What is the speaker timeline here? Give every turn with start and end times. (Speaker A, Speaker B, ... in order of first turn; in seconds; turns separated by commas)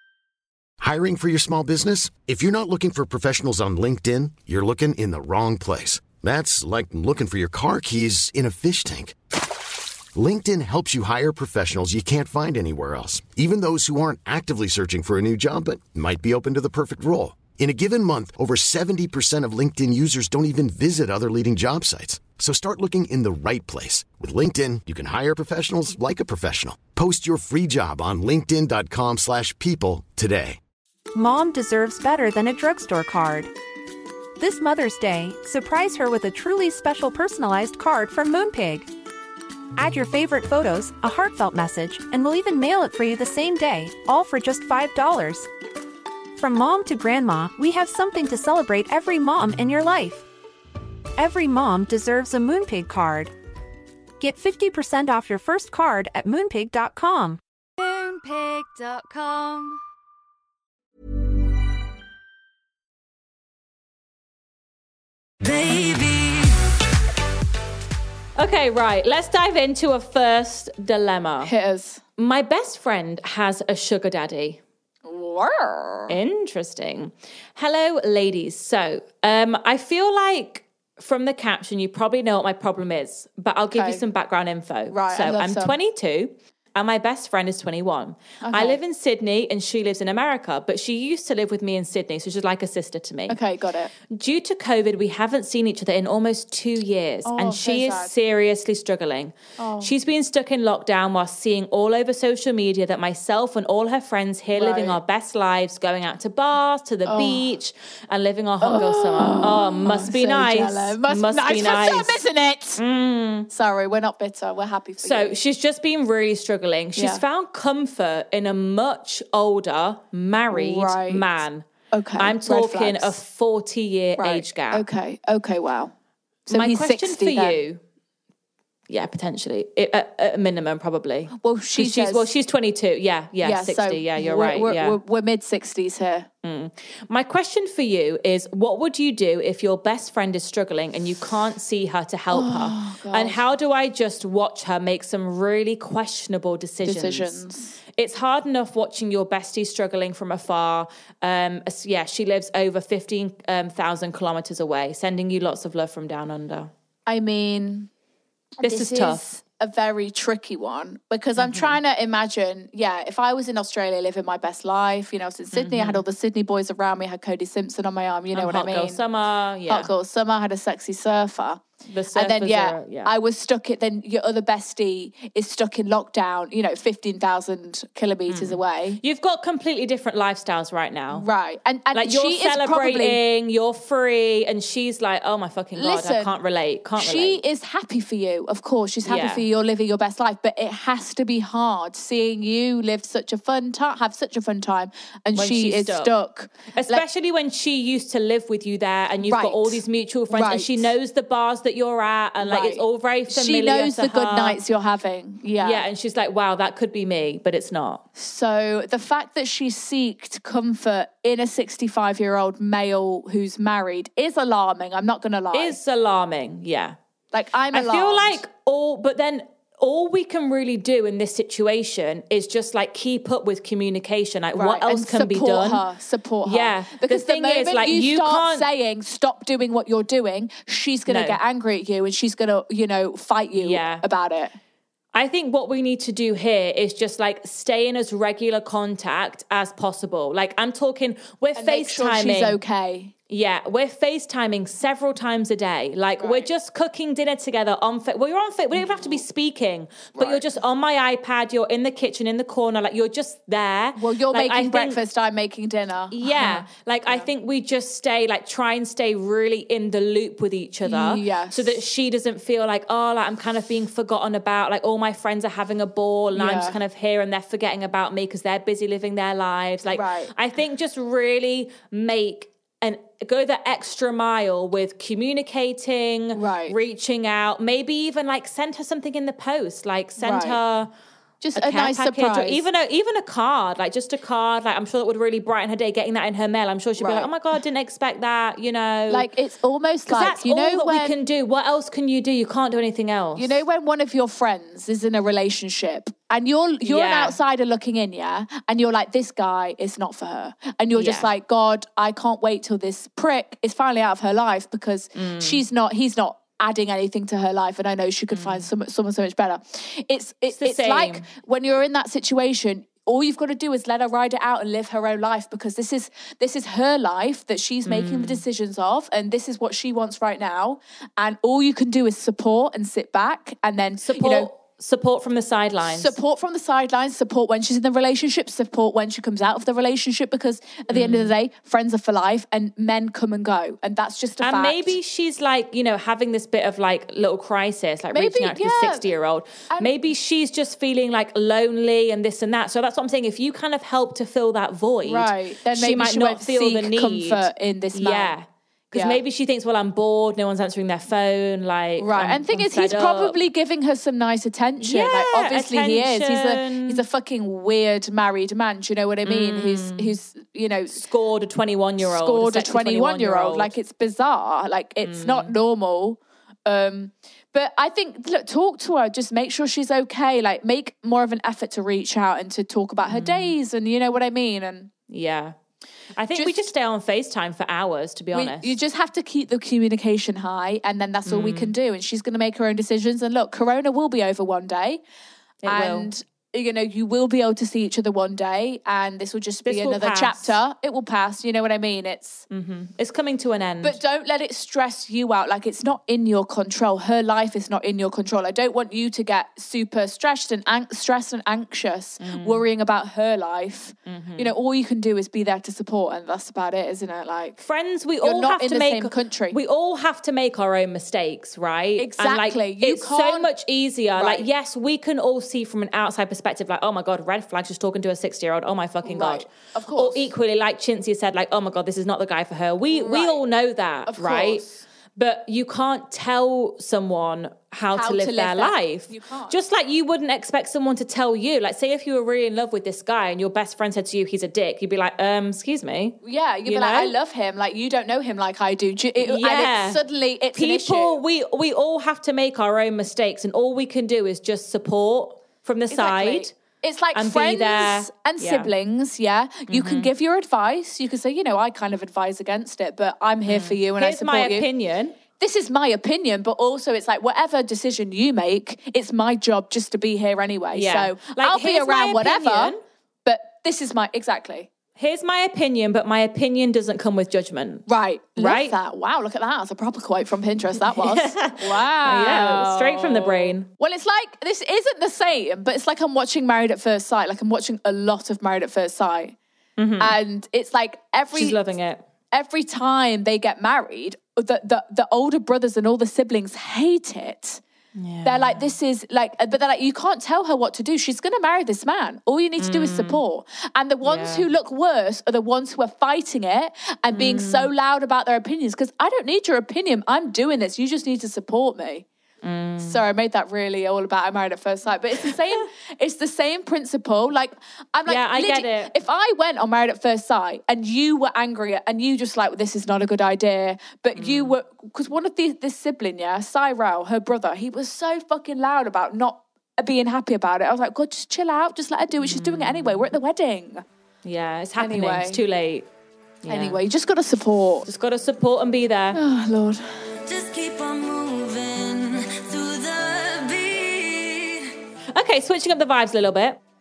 Speaker A: 0.8-9.2, Speaker A: 10.1-30.6, Speaker B: 31.1-33.5, Speaker B: 34.4-38.9, Speaker B: 39.8-45.5, Speaker B: 46.4-50.2, Speaker B: 51.2-53.3, Speaker B: 54.2-57.4, Speaker C: 57.8-59.8, Speaker C: 65.4-66.6, Speaker D: 68.3-71.5, Speaker E: 71.4-72.0, Speaker D: 72.2-74.6, Speaker E: 75.0-76.1, Speaker D: 76.1-93.4, Speaker E: 83.7-84.0, Speaker E: 84.9-85.8, Speaker E: 88.4-88.8, Speaker E: 93.3-93.9, Speaker D: 94.1-112.2, Speaker E: 97.2-98.1, Speaker E: 99.6-99.9, Speaker E: 104.5-105.0, Speaker E: 107.0-107.5, Speaker E: 108.6-112.8, Speaker D: 112.8-113.5, Speaker E: 113.5-115.4, Speaker D: 115.0-121.7, Speaker E: 117.0-117.2, Speaker E: 120.5-121.2, Speaker E: 121.9-123.2, Speaker D: 122.2-124.8, Speaker E: 124.2-125.9, Speaker E: 126.5-127.6, Speaker D: 126.5-127.8, Speaker D: 128.9-135.0, Speaker E: 131.4-132.3, Speaker E: 133.4-136.3, Speaker D: 136.4-147.4, Speaker E: 142.3-143.4, Speaker E: 146.8-147.8, Speaker D: 147.9-156.7, Speaker E: 157.1-157.9, Speaker E: 158.6-169.0, Speaker D: 158.6-159.2, Speaker D: 161.4-161.8, Speaker D: 165.5-166.0, Speaker D: 168.3-169.9, Speaker E: 169.7-171.6, Speaker D: 171.9-173.1, Speaker E: 172.1-179.0, Speaker D: 178.3-181.3, Speaker E: 181.1-183.2, Speaker D: 181.9-187.4, Speaker E: 185.8-186.3, Speaker E: 187.0-197.0, Speaker D: 189.0-189.4, Speaker D: 195.3-196.1, Speaker D: 196.7-204.6, Speaker E: 199.2-200.9, Speaker E: 202.4-205.8, Speaker D: 205.6-208.0, Speaker E: 208.2-215.8, Speaker D: 215.5-216.9, Speaker E: 217.3-218.4, Speaker D: 217.7-225.8, Speaker E: 224.5-234.5, Speaker D: 226.4-228.7, Speaker D: 231.1-231.4, Speaker D: 233.6-234.0, Speaker D: 235.1-242.6, Speaker E: 241.6-243.1, Speaker D: 243.3-255.0, Speaker E: 246.2-246.5, Speaker E: 248.8-249.2, Speaker E: 250.1-250.4, Speaker E: 253.9-257.3, Speaker D: 256.1-280.9, Speaker E: 260.8-261.8, Speaker E: 266.3-266.8, Speaker E: 269.9-270.3, Speaker E: 276.3-276.7, Speaker E: 280.2-280.6, Speaker E: 281.4-282.6, Speaker D: 281.6-289.3, Speaker E: 287.0-287.3, Speaker E: 289.1-291.1, Speaker D: 290.1-293.6, Speaker E: 293.4-324.5, Speaker D: 296.8-297.4, Speaker D: 300.9-301.3, Speaker D: 305.1-305.6, Speaker D: 308.3-308.7, Speaker D: 310.5-311.2, Speaker D: 317.9-318.4, Speaker D: 324.0-326.1, Speaker E: 325.8-334.9, Speaker D: 330.9-331.3, Speaker D: 334.4-353.4, Speaker E: 338.1-339.1, Speaker E: 345.0-348.3, Speaker E: 348.9-349.2, Speaker E: 352.0-361.0, Speaker D: 354.8-357.0, Speaker D: 359.2-360.1, Speaker D: 360.9-363.7, Speaker E: 362.0-374.9, Speaker D: 365.1-365.5, Speaker D: 373.1-373.5, Speaker D: 375.1-375.6, Speaker D: 376.1-378.8, Speaker E: 376.3-376.7, Speaker E: 378.3-385.0, Speaker D: 381.2-381.7, Speaker D: 385.6-386.1, Speaker E: 385.6-392.4, Speaker D: 389.6-390.6, Speaker D: 392.5-394.0, Speaker E: 393.8-407.6, Speaker D: 402.2-402.6, Speaker D: 404.1-404.5, Speaker D: 407.6-437.1, Speaker E: 408.2-409.6, Speaker E: 412.0-413.5, Speaker E: 414.1-414.5, Speaker E: 419.0-420.3, Speaker E: 422.9-423.4, Speaker E: 424.1-424.8, Speaker E: 427.9-429.6, Speaker E: 436.2-441.2, Speaker D: 439.2-440.0, Speaker D: 440.5-446.6, Speaker E: 445.9-454.6, Speaker D: 447.1-448.7, Speaker D: 449.7-450.1, Speaker D: 453.5-455.2, Speaker E: 455.4-462.7, Speaker D: 460.7-462.8, Speaker E: 463.2-464.7, Speaker D: 465.0-468.8, Speaker E: 467.9-479.4, Speaker D: 470.8-473.7, Speaker D: 479.8-480.1, Speaker E: 480.0-481.6, Speaker D: 481.3-482.0, Speaker E: 482.3-487.6, Speaker D: 487.9-488.7, Speaker E: 488.2-502.1, Speaker D: 492.6-493.2, Speaker D: 494.0-494.5, Speaker D: 497.1-497.7, Speaker D: 502.4-503.0, Speaker E: 502.8-523.8, Speaker D: 508.1-508.9, Speaker D: 514.1-514.6, Speaker D: 522.2-523.1, Speaker D: 524.2-525.9, Speaker E: 524.8-525.4, Speaker D: 526.4-526.8, Speaker E: 526.5-527.9, Speaker D: 527.9-529.2, Speaker E: 529.1-529.8, Speaker C: 530.2-534.7, Speaker D: 535.1-536.6